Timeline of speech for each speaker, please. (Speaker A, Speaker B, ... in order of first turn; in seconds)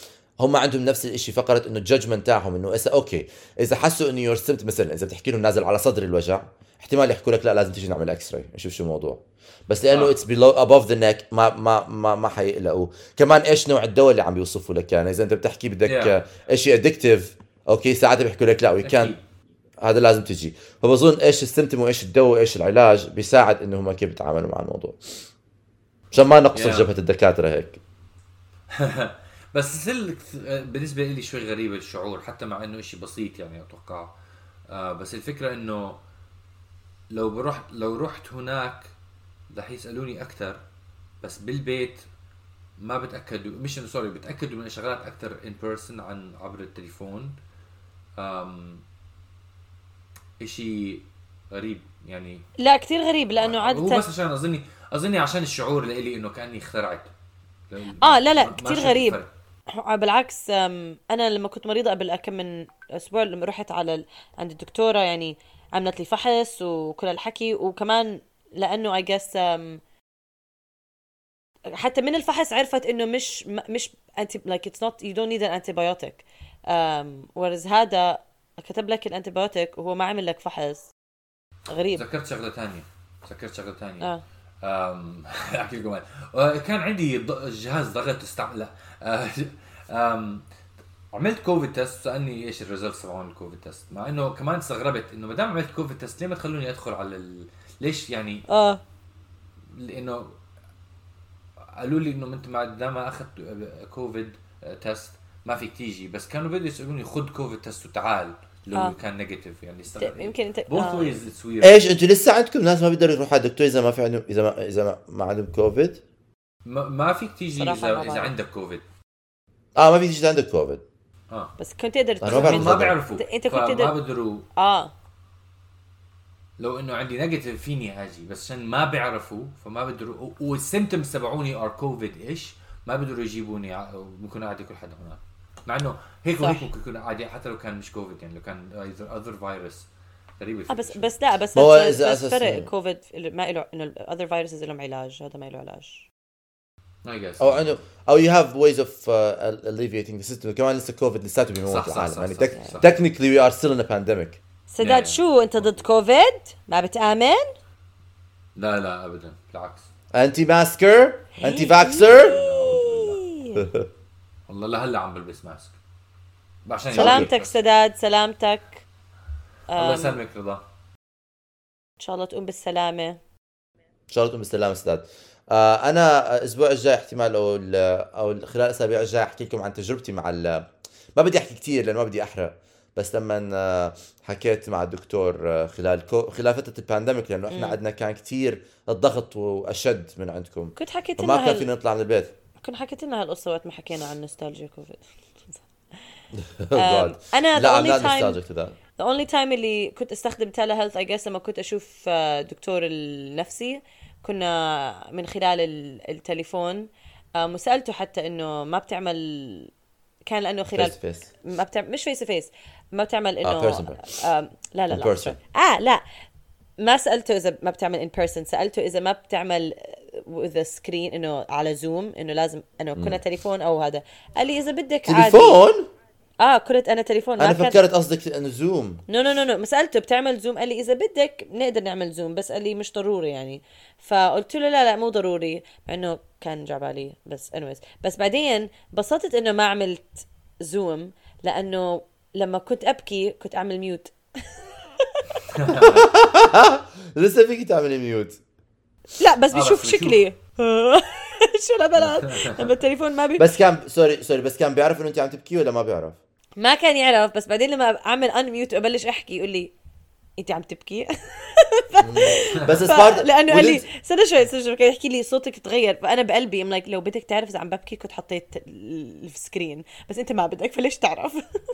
Speaker A: 0.4-19.1, 19.8-25.0, 26.1-27.8, 111.6-116.0, 119.8-120.8, 122.2-123.0, 141.5-142.7, 147.4-154.4, 160.1-162.4, 163.5-163.8, 166.9-167.3, 174.1-180.6, 181.2-192.3, 196.4-198.8, 210.7-211.3, 213.4-214.1, 214.9-215.3, 222.9-223.2, 225.0-225.9, 227.4-229.0, 245.7-248.4, 253.4-256.2, 262.0-263.8
Speaker B: 9.9-10.2, 15.8-16.1, 18.8-19.2, 26.5-26.9, 28.7-34.1, 34.7-36.0, 37.1-38.9, 39.5-40.6, 41.2-42.0, 42.8-47.3, 48.2-48.8, 50.4-52.4, 53.4-57.1, 57.7-59.3, 81.9-84.1, 84.6-90.4, 91.1-98.4, 99.7-100.4, 101.8-111.9, 116.6-118.8, 122.2-124.5, 126.6-139.9, 140.4-141.1, 147.0-147.8, 151.7-152.9, 154.8-155.8, 158.6-159.9, 161.9-163.3, 164.5-165.8, 166.7-167.6, 169.8-170.6, 245.5-246.1, 249.5-250.2, 252.3-252.6
Speaker C: 52.6-54.1, 58.0-69.8, 71.7-80.9, 81.7-82.0, 98.5-98.8, 109.9-111.2, 117.5-118.3, 121.6-124.0, 124.5-124.9, 136.4-136.7, 140.7-146.1, 154.7-157.4, 161.4-163.6, 166.9-168.8, 169.7-170.2, 172.0-173.2, 187.5-187.8, 190.8-191.7, 192.6-195.7, 196.7-198.4, 199.0-209.7, 210.2-216.0, 216.8-225.6, 226.4-227.8, 229.1-244.4, 249.2-253.5, 256.6-259.7, 260.4-271.4